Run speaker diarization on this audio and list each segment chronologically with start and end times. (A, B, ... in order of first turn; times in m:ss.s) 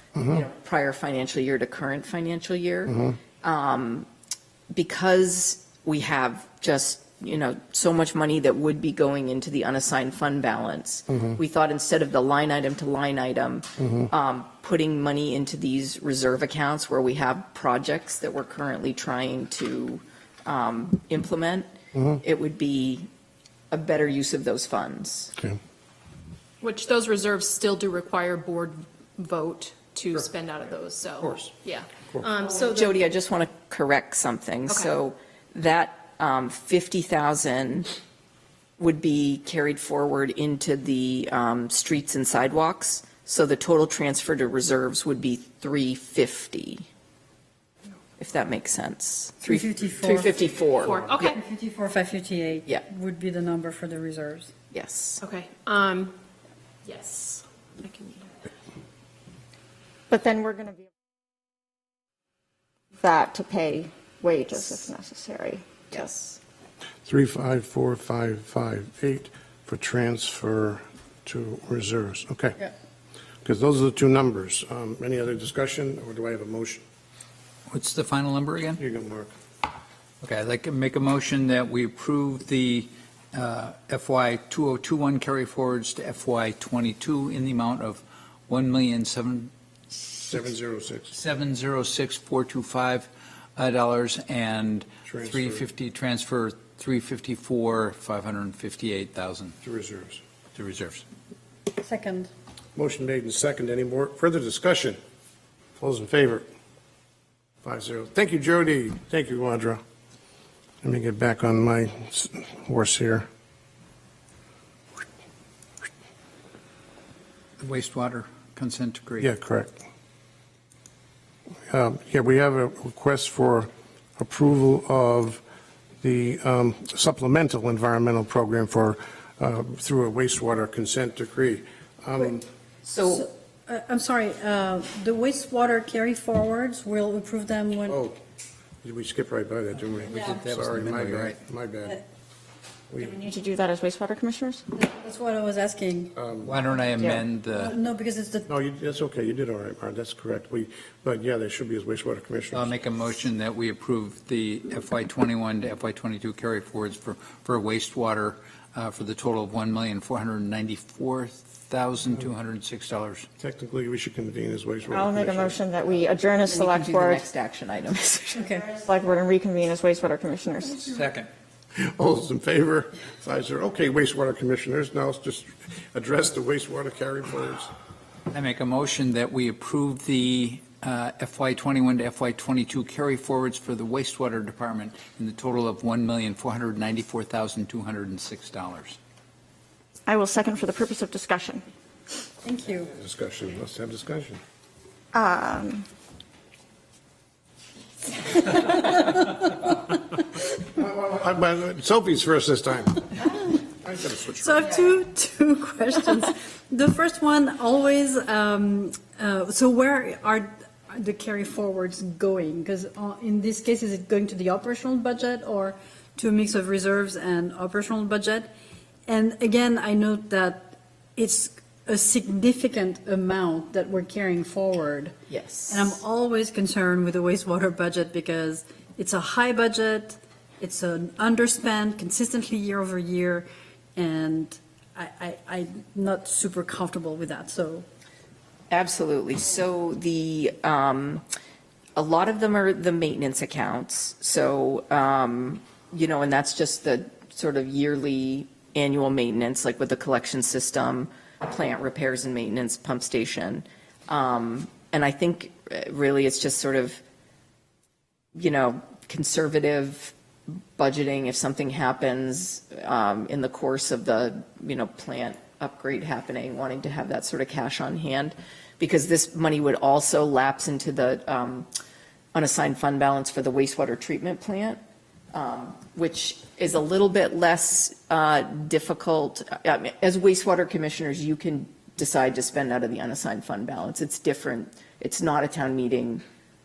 0:00.2-0:04.1 A
0:04.7-0:21.7 A
0:21.9-0:22.2 B
0:22.2-0:23.1 A
0:23.7-0:25.3 A
0:26.6-0:32.9 C
0:32.4-0:37.9 A
0:38.8-0:46.8 A
0:48.2-0:51.3 A
0:49.4-0:50.4 D
0:50.8-0:51.4 C
0:51.2-0:54.5 D
0:54.7-0:55.2 A
0:55.2-0:56.2 C
0:56.8-0:58.3 C
1:00.1-1:00.8 E
1:03.0-1:05.6 E
1:05.9-1:06.3 A
1:07.0-1:12.6 B
1:13.4-1:16.8 B
1:17.7-1:18.8 F
1:18.8-1:19.3 B
1:20.2-1:29.5 F
1:30.3-1:31.1 B
1:31.1-1:39.6 F
1:35.0-1:35.6 B
1:39.6-1:40.2 B
1:40.5-1:41.0 F
1:41.7-1:42.3 D
1:42.8-1:45.0 B
1:45.8-1:46.4 B
1:47.6-1:49.8 B
1:50.8-1:53.2 B
1:57.6-1:59.3 F
1:59.2-1:59.8 B
2:01.7-2:05.4 B
2:06.0-2:12.4 B
2:12.8-2:13.3 A
2:13.0-2:18.0 D
2:17.9-2:18.2 B
2:18.8-2:22.0 B
2:20.0-2:21.4 F
2:23.0-2:24.6 E
2:24.7-2:26.1 D
2:26.1-2:26.6 B
2:26.4-2:27.7 F
2:27.5-2:28.4 D
2:28.4-2:32.8 B
2:32.5-2:43.3 F
2:43.4-2:45.6 B
2:44.9-2:47.2 E
2:46.5-2:48.5 A
2:48.4-2:48.7 D
2:48.6-2:50.8 E
2:50.8-2:51.3 F
2:51.8-2:57.7 B
2:58.3-3:09.0 F
3:10.1-3:11.6 E
3:12.4-3:12.9 D
3:12.9-3:14.4 B
3:15.1-3:15.8 E
3:20.7-3:24.8 B
3:24.3-3:38.5 D
3:39.1-3:45.1 D
3:45.3-3:45.9 A
3:45.7-3:57.8 D
3:58.7-4:01.2 A
4:02.0-4:17.0 A
4:18.3-4:20.1 A
4:20.8-4:31.7 A
4:32.3-4:34.8 A
4:35.3-4:46.2 A